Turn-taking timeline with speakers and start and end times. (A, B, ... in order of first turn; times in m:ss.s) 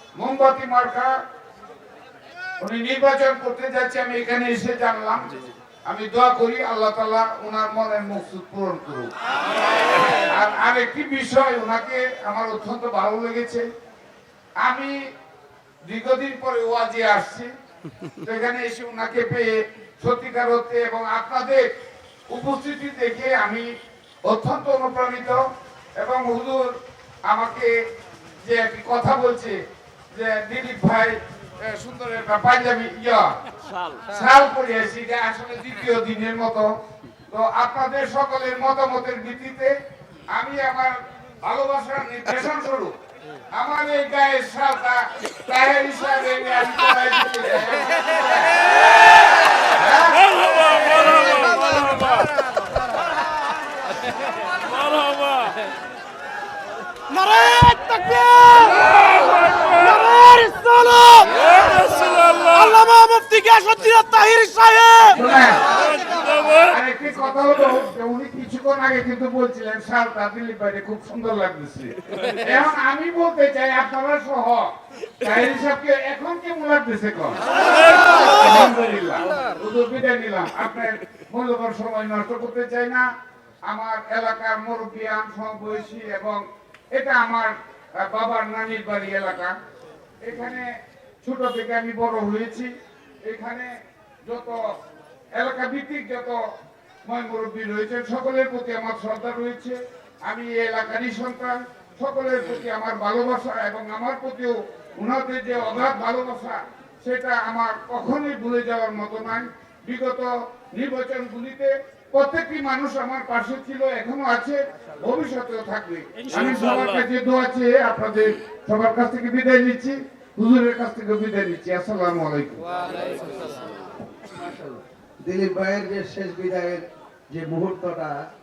0:00.1-0:01.2 A
0:02.6-0:05.3 A
0:05.9-0:09.1 A
0:10.0-0:13.6 A
0:14.6-0:14.9 A
0:15.8-0:17.5 A
0:17.9-0:18.2 B
0:18.2-0:21.6 A
0:22.3-0:23.6 A
0:24.2-0:25.4 A
0:26.0-0:26.7 A
0:27.2-0:27.7 A
0:28.4-0:29.6 A
0:30.1-0:33.3 A
0:34.1-0:36.7 A
0:37.3-0:39.7 A
0:40.3-0:42.9 A
0:43.5-0:51.5 A
0:57.1-1:05.2 C
1:05.1-1:05.7 A
1:06.6-1:23.0 A
1:23.7-1:29.5 A
1:30.2-1:30.7 A
1:31.2-1:32.7 A
1:33.2-1:33.7 A
1:34.2-1:34.6 A
1:35.3-1:36.4 A
1:37.0-2:02.7 A
2:04.3-2:08.2 B